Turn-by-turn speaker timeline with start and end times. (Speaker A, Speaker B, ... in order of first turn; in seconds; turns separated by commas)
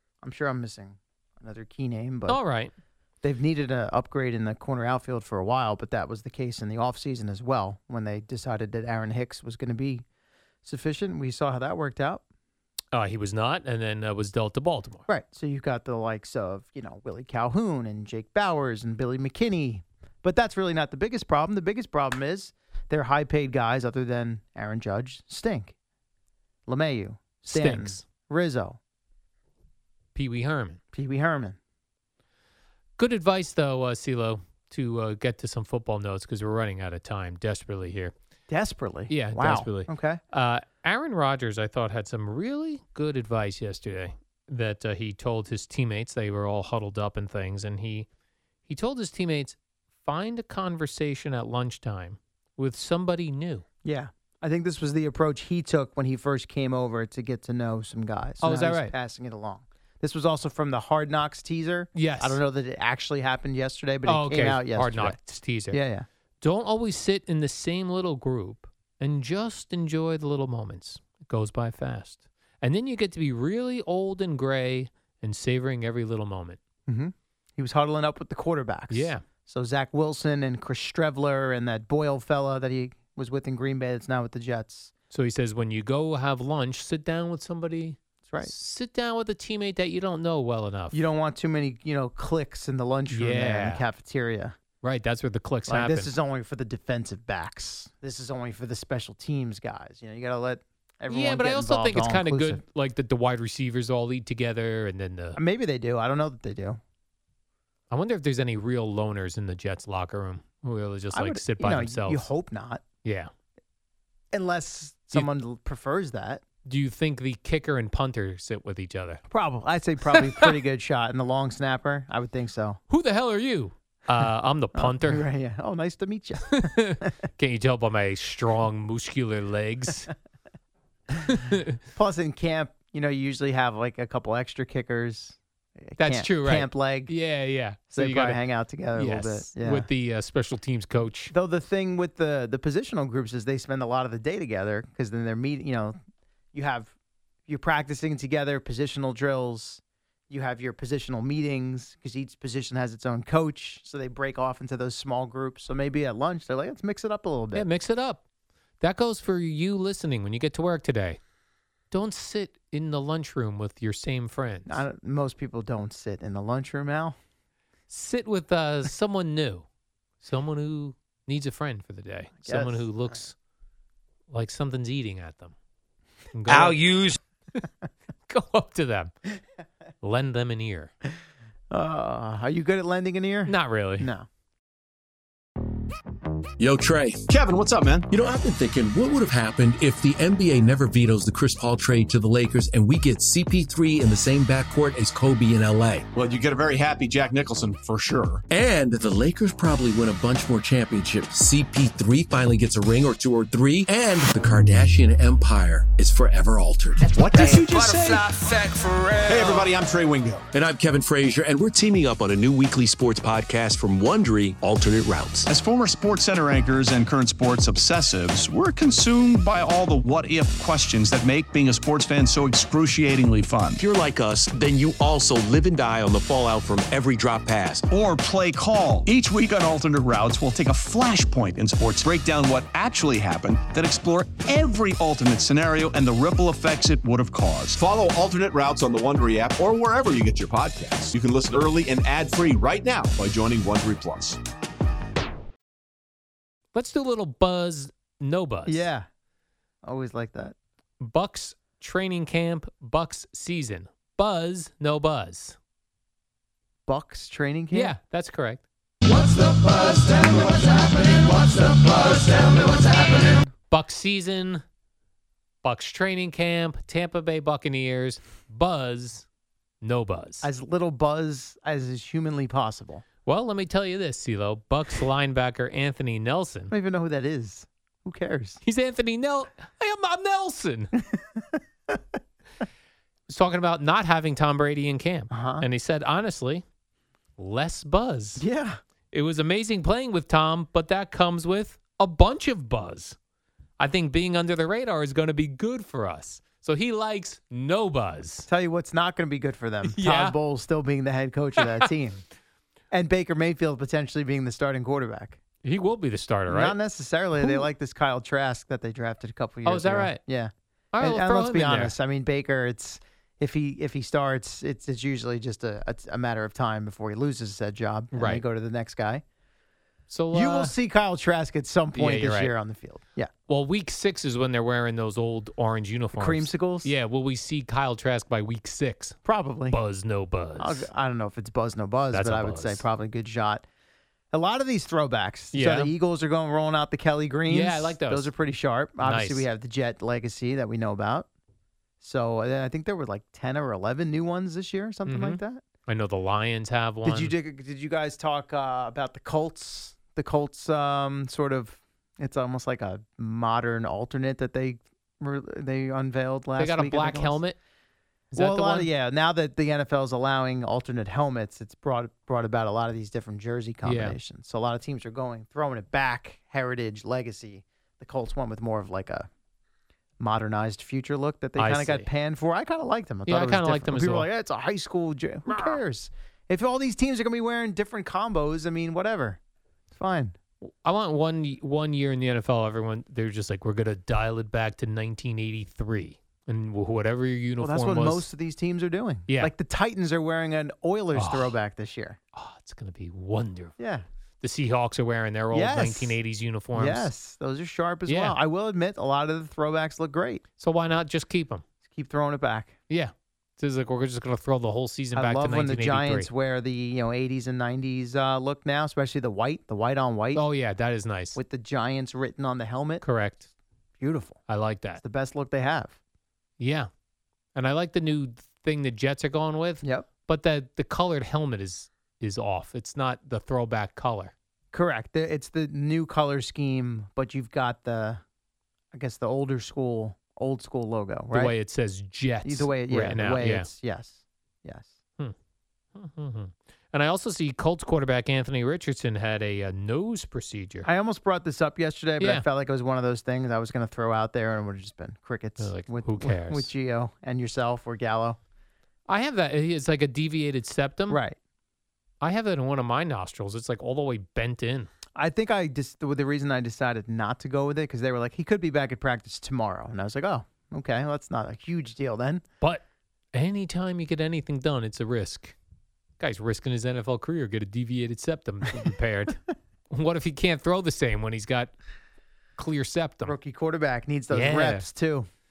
Speaker A: 0.2-2.4, Speaker B: 2.3-2.7, Speaker A: 3.2-10.1, Speaker A: 10.6-12.2, Speaker B: 12.9-15.0, Speaker A: 15.1-25.7, Speaker A: 26.7-28.8, Speaker B: 27.5-28.0, Speaker B: 30.1-30.8, Speaker A: 30.9-31.6, Speaker B: 33.0-38.1, Speaker A: 38.5-40.2, Speaker B: 39.1-48.1, Speaker B: 48.7-53.6, Speaker A: 53.8-65.2, Speaker B: 58.4-58.9, Speaker B: 61.9-62.4, Speaker B: 64.0-65.8, Speaker A: 65.7-66.1, Speaker B: 66.4-76.6, Speaker A: 76.9-84.9, Speaker B: 78.9-79.2, Speaker B: 85.1-91.0, Speaker A: 90.9-94.6, Speaker B: 93.1-93.8, Speaker B: 94.8-96.1, Speaker A: 95.7-102.6, Speaker B: 101.1-105.4, Speaker A: 105.4-106.8, Speaker B: 107.9-112.3, Speaker A: 111.1-112.8, Speaker B: 113.0-113.3, Speaker A: 114.3-116.4, Speaker B: 116.7-119.2, Speaker A: 119.3-122.8, Speaker B: 122.9-125.3, Speaker A: 124.7-127.1, Speaker B: 126.6-130.1, Speaker B: 131.3-131.6, Speaker A: 131.9-137.2, Speaker B: 136.0-138.4, Speaker A: 137.9-139.9, Speaker B: 138.9-141.3, Speaker A: 141.3-146.0, Speaker A: 146.5-146.9, Speaker A: 147.5-157.7, Speaker B: 157.5-158.2, Speaker B: 158.8-161.2, Speaker B: 161.9-164.8, Speaker A: 164.7-167.2, Speaker B: 167.9-169.7, Speaker B: 170.2-173.3, Speaker A: 172.5-173.2, Speaker B: 174.3-175.6, Speaker B: 176.3-177.0, Speaker C: 176.5-177.1, Speaker B: 178.3-179.1, Speaker B: 180.0-180.9, Speaker A: 181.7-184.3, Speaker B: 183.5-184.1, Speaker D: 186.6-187.2, Speaker E: 187.3-188.1, Speaker D: 188.1-196.1, Speaker E: 196.2-198.4, Speaker D: 198.5-207.0, Speaker C: 207.0-209.8, Speaker E: 207.2-208.2, Speaker E: 209.3-210.4, Speaker D: 210.5-215.5, Speaker E: 215.5-223.8, Speaker D: 223.8-227.8, Speaker E: 227.9-237.8, Speaker F: 237.8-244.4, Speaker B: 246.7-248.9, Speaker A: 248.7-249.1, Speaker A: 249.8-250.6, Speaker B: 251.0-255.6, Speaker A: 256.9-257.9, Speaker B: 257.7-258.7, Speaker B: 263.7-264.6, Speaker B: 265.6-269.3, Speaker B: 269.8-270.5, Speaker A: 270.4-273.0, Speaker B: 273.2-276.7, Speaker A: 276.7-278.6, Speaker B: 278.6-280.9, Speaker A: 281.4-281.9, Speaker B: 283.3-286.6, Speaker A: 285.3-285.6, Speaker B: 287.4-288.4, Speaker A: 288.4-288.8, Speaker B: 289.1-293.2, Speaker B: 293.8-298.5, Speaker A: 298.5-302.2, Speaker B: 299.8-300.4, Speaker B: 301.6-301.9, Speaker A: 302.9-305.4, Speaker B: 305.6-306.8, Speaker A: 306.5-319.2, Speaker B: 307.4-307.7, Speaker B: 309.6-310.2, Speaker B: 310.9-311.9, Speaker B: 318.1-318.4, Speaker B: 320.1-320.7, Speaker A: 320.3-323.3, Speaker B: 321.9-322.5, Speaker B: 323.5-329.2, Speaker A: 326.2-326.9, Speaker A: 329.2-329.8, Speaker B: 329.7-330.9, Speaker A: 330.6-333.6, Speaker B: 332.1-332.8, Speaker A: 334.3-341.3, Speaker B: 335.5-335.9, Speaker B: 337.5-338.3, Speaker B: 339.0-339.5, Speaker A: 342.0-345.6, Speaker B: 345.1-347.3, Speaker A: 347.1-357.4, Speaker B: 356.6-357.6, Speaker B: 358.3-358.9, Speaker A: 358.4-369.3, Speaker B: 363.8-364.2, Speaker A: 370.2-379.4, Speaker B: 371.6-372.1, Speaker B: 373.3-374.3, Speaker B: 375.5-375.8, Speaker A: 379.9-380.4, Speaker B: 380.6-388.3, Speaker A: 387.6-392.2, Speaker B: 391.1-391.6, Speaker B: 392.3-393.8, Speaker A: 393.8-394.1, Speaker B: 394.4-397.1, Speaker A: 395.5-396.2, Speaker A: 396.8-400.4, Speaker B: 398.1-398.4, Speaker B: 400.6-401.6, Speaker A: 401.9-402.8, Speaker B: 402.9-406.3, Speaker A: 405.1-410.4, Speaker B: 410.3-411.4, Speaker A: 411.4-413.0, Speaker B: 413.0-413.5, Speaker A: 414.0-414.4, Speaker B: 414.5-415.0, Speaker A: 415.0-415.9, Speaker B: 416.6-416.9, Speaker B: 417.6-424.3, Speaker A: 424.7-428.2, Speaker A: 428.9-431.6, Speaker B: 431.3-433.7, Speaker A: 432.4-434.9, Speaker B: 435.9-440.9, Speaker A: 440.8-448.4, Speaker B: 442.2-442.4, Speaker B: 445.6-446.7, Speaker B: 449.1-451.2, Speaker A: 451.1-451.4, Speaker B: 452.2-454.9, Speaker A: 455.1-462.4, Speaker B: 462.6-465.6, Speaker B: 466.2-471.7, Speaker B: 472.6-473.4, Speaker A: 473.3-475.3, Speaker B: 474.3-474.9